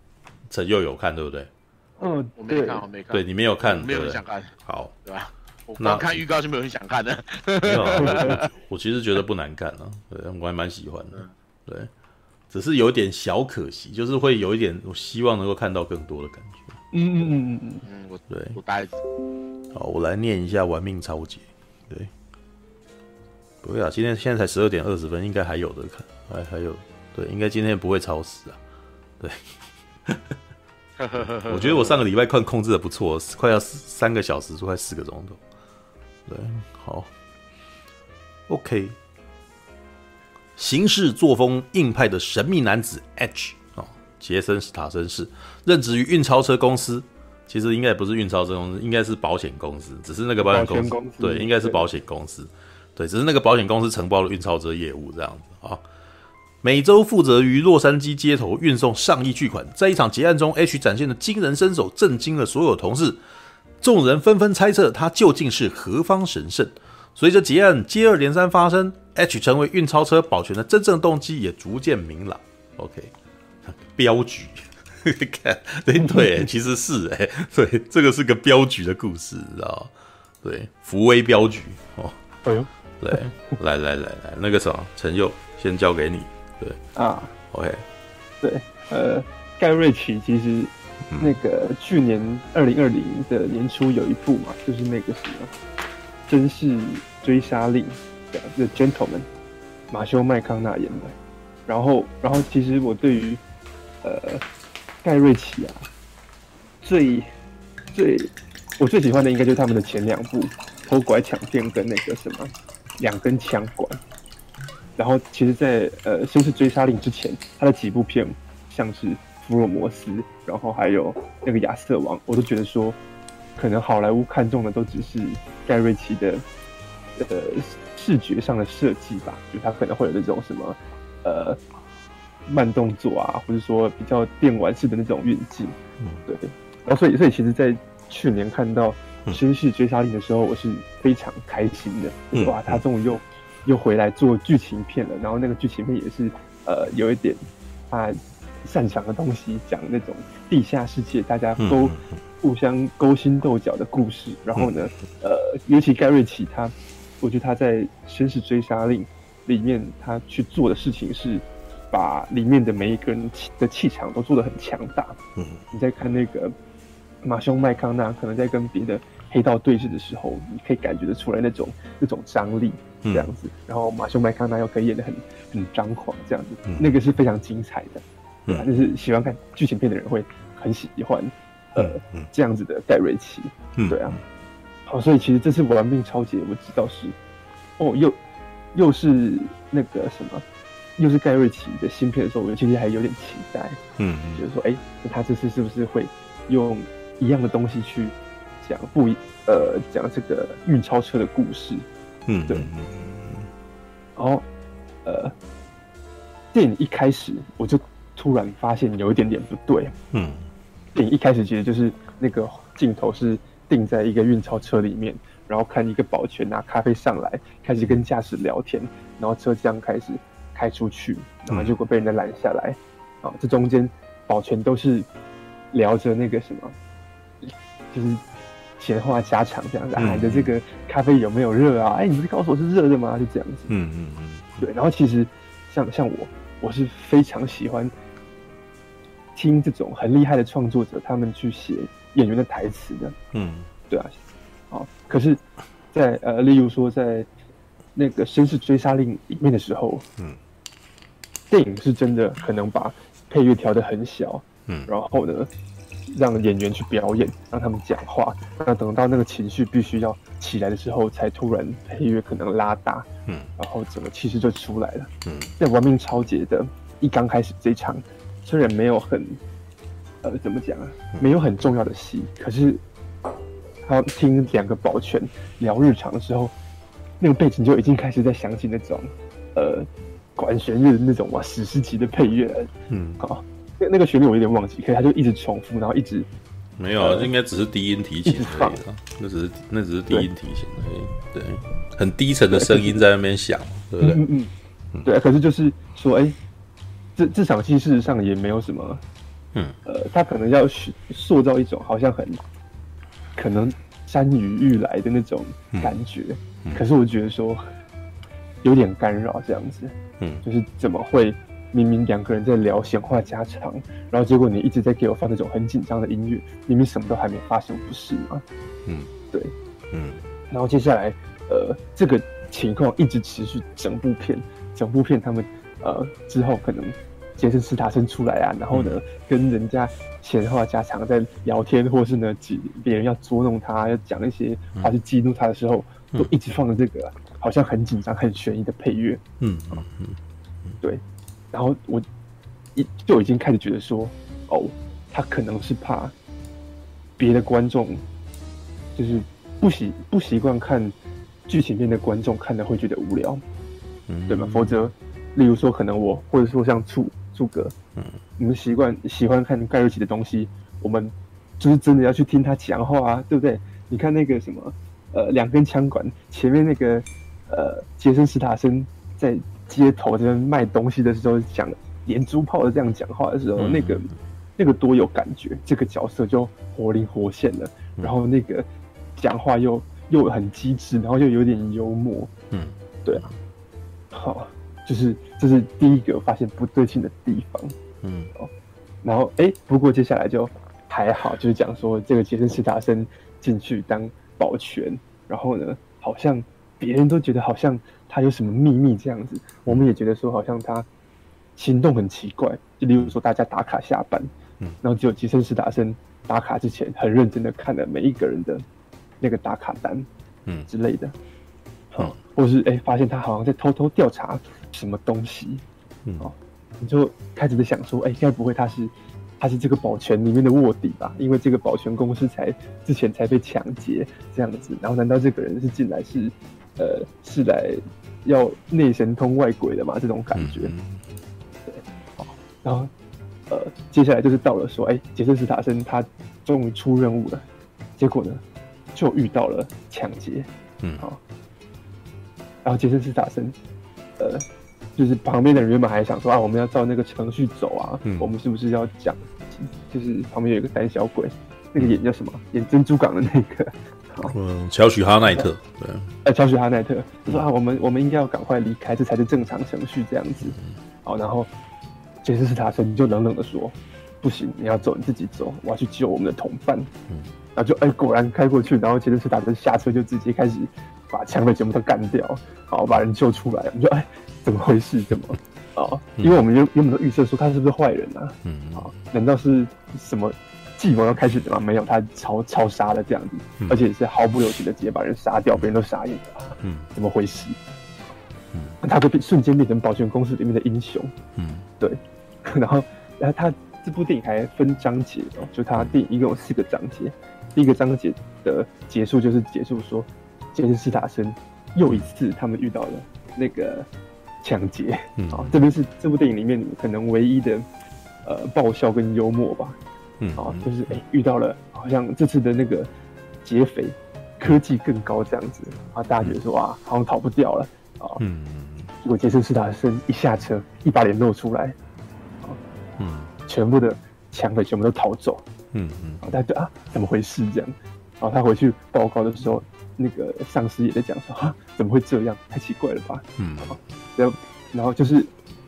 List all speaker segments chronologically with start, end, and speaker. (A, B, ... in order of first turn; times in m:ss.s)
0:00.5-0:01.5 A
0:02.0-0:02.8 B
0:02.4-0:04.5 C
0:03.1-0:05.0 A
0:05.1-0:08.5 C
0:05.8-0:06.2 A
0:07.7-0:11.9 A
0:08.0-0:08.4 B
0:12.5-0:16.8 A
0:16.9-0:17.8 B
0:17.9-0:19.0 C
0:18.3-0:18.6 A
0:19.7-0:22.1 A
0:23.6-0:28.6 A
0:29.2-0:29.4 A
0:30.1-0:30.3 A
0:31.0-0:32.0 C
0:31.4-0:35.4 A
0:36.3-0:37.1 A
0:38.5-0:39.0 A
0:40.6-0:55.8 A
0:50.4-0:51.9 B
0:56.6-1:03.2 A
1:03.8-1:13.1 A
1:13.6-1:19.9 A
1:16.0-1:16.4 B
1:20.4-1:22.2 A
1:22.4-1:23.6 B
1:23.0-1:26.8 A
1:27.0-1:27.3 B
1:27.5-1:27.8 A
1:28.4-1:35.5 B
1:31.1-1:31.4 A
1:36.3-1:39.3 B
1:39.9-1:41.2 B
1:41.7-1:43.4 B
1:44.0-1:44.4 B
1:45.0-1:45.9 B
1:46.8-1:47.3 B
1:47.9-1:54.0 B
1:55.0-2:03.0 B
2:03.6-2:06.4 B
2:07.2-2:11.6 B
2:12.5-2:27.4 B
2:22.3-2:22.8 A
2:27.9-2:45.2 B
2:31.6-2:32.2 A
2:45.4-2:45.6 A
2:45.7-2:46.5 B
2:47.2-3:04.2 B
2:53.0-2:53.3 A
2:56.7-2:56.9 A
3:01.8-3:02.3 A
3:03.8-3:04.2 A
3:04.9-3:07.2 B
3:07.8-3:08.2 B
3:08.7-3:10.4 B
3:11.0-3:13.8 B
3:14.0-3:14.4 A
3:14.4-3:21.9 B
3:22.3-3:23.5 A
3:24.2-3:24.4 B
3:25.0-3:25.3 B
3:26.5-3:29.9 B
3:30.1-3:30.5 A
3:30.9-3:45.1 B
3:41.5-3:41.7 A
3:45.7-3:46.8 B
3:47.4-3:48.2 B
3:48.8-3:53.7 B
3:50.0-3:50.5 A
3:53.7-3:54.7 A
3:54.6-3:57.9 B
3:59.4-4:03.2 B
4:03.3-4:03.7 A
4:04.7-4:05.4 B
4:05.9-4:07.3 B
4:08.0-4:10.0 B
4:11.5-4:15.5 B
4:16.1-4:23.1 B
4:23.6-4:29.4 B
4:25.2-4:25.5 A
4:30.2-4:32.8 B
4:33.8-4:36.5 B
4:37.2-4:46.3 B
4:42.9-4:43.2 A
4:46.8-4:54.2 A
4:47.0-4:47.3 B
4:48.2-4:48.8 B
4:52.5-4:53.0 B
4:54.0-4:54.5 B
4:55.0-4:56.4 B
4:57.2-4:59.0 B
4:59.9-5:02.4 B
5:03.4-5:07.6 B
5:08.6-5:18.4 B
5:19.9-5:20.2 A
5:20.5-5:39.8 B
5:28.7-5:29.0 A
5:39.4-5:40.2 A
5:40.8-5:42.0 B
5:42.8-5:46.1 B
5:47.2-5:48.0 B
5:49.0-5:50.9 B
5:51.5-5:53.4 B
5:54.1-5:54.8 A
5:54.3-5:57.7 B
5:58.4-6:22.3 B
6:13.6-6:14.1 A
6:22.5-6:23.3 A
6:23.0-6:23.3 B
6:24.1-6:27.8 B
6:28.0-6:28.3 A
6:29.0-6:40.9 B
6:41.6-6:44.3 B
6:44.8-6:48.6 B
6:49.2-6:50.1 B
6:50.7-6:51.2 B
6:51.9-6:55.6 B
6:56.2-7:10.7 B
7:10.3-7:11.0 A
7:11.7-7:12.9 B
7:13.5-7:17.4 B
7:18.0-7:18.4 B
7:18.9-7:20.5 B
7:22.6-7:23.6 B
7:24.2-7:24.5 B
7:25.0-7:34.4 B
7:28.0-7:28.3 A
7:34.3-7:36.1 A
7:36.2-7:41.5 B
7:42.2-7:46.9 B
7:47.6-8:07.6 B
7:58.4-7:58.9 A
8:06.6-8:06.9 A
8:08.8-8:11.1 B
8:11.4-8:11.7 A
8:11.8-8:23.9 B
8:24.4-8:27.6 B
8:25.2-8:25.6 A
8:28.2-8:29.8 B
8:30.2-8:31.0 A
8:30.4-8:32.9 B
8:33.4-8:38.2 B
8:38.2-8:38.9 A
8:39.0-8:41.8 B
8:43.0-8:43.3 A
8:43.5-8:45.4 B
8:45.7-8:46.2 A
8:46.2-8:55.3 B
8:53.4-8:53.8 A